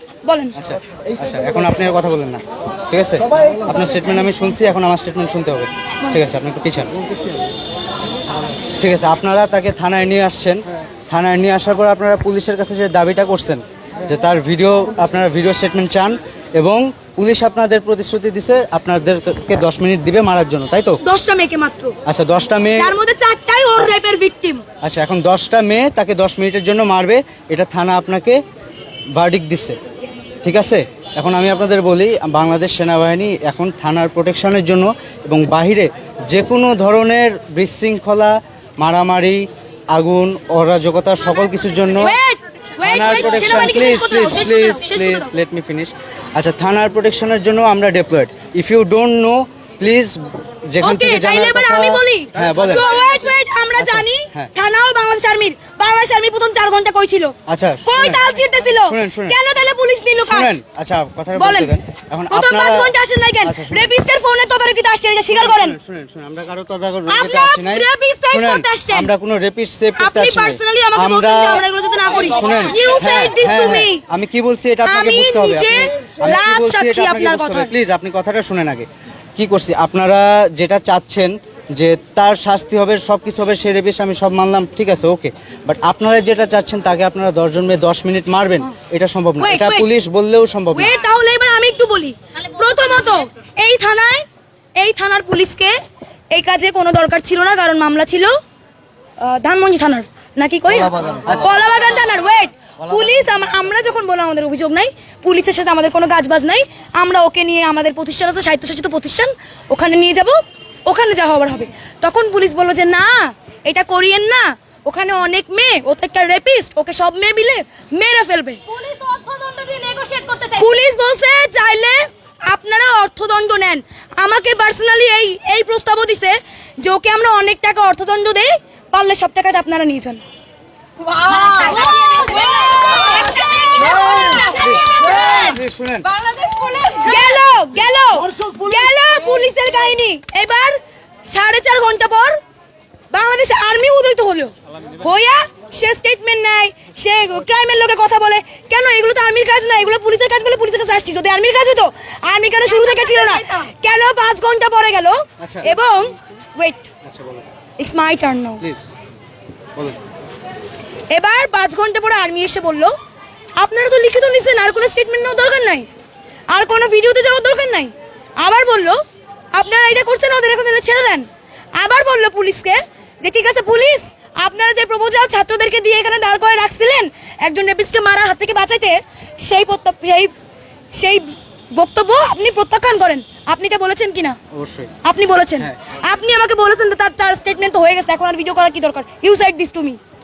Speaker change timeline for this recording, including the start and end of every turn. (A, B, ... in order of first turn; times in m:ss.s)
0:00.2-0:00.6 A
0:00.5-0:06.9 B
0:08.8-0:21.0 B
0:21.0-0:22.0 A
0:22.0-0:22.9 B
0:22.7-0:24.6 A
0:24.8-0:28.4 B
0:29.1-0:29.8 B
0:30.4-0:42.2 B
0:42.0-0:45.3 A
0:42.8-0:53.0 B
0:50.8-1:00.6 A
0:53.8-0:54.5 B
0:57.5-0:58.3 B
0:58.8-0:59.4 B
1:00.3-1:03.9 B
1:01.3-1:01.8 A
1:02.3-1:05.8 A
1:05.3-1:11.6 B
1:07.1-1:09.1 A
1:10.0-1:14.0 A
1:12.2-1:30.9 B
1:14.8-1:17.7 A
1:29.4-1:29.9 A
1:30.7-1:35.7 A
1:36.3-1:38.4 A
1:39.2-1:58.7 A
1:41.0-1:41.4 B
1:58.7-2:00.8 C
2:00.6-2:10.2 A
2:11.1-2:15.4 C
2:11.3-2:15.2 A
2:14.5-2:16.1 B
2:16.1-2:17.3 C
2:17.0-2:22.4 A
2:23.1-2:36.9 A
2:35.4-2:35.7 B
2:37.0-2:37.4 B
2:37.8-2:38.6 A
2:41.1-2:42.9 A
2:43.6-2:45.9 A
2:46.5-2:49.0 A
2:49.5-3:00.3 A
3:00.9-3:04.4 A
3:04.5-3:04.9 B
3:05.0-3:10.0 A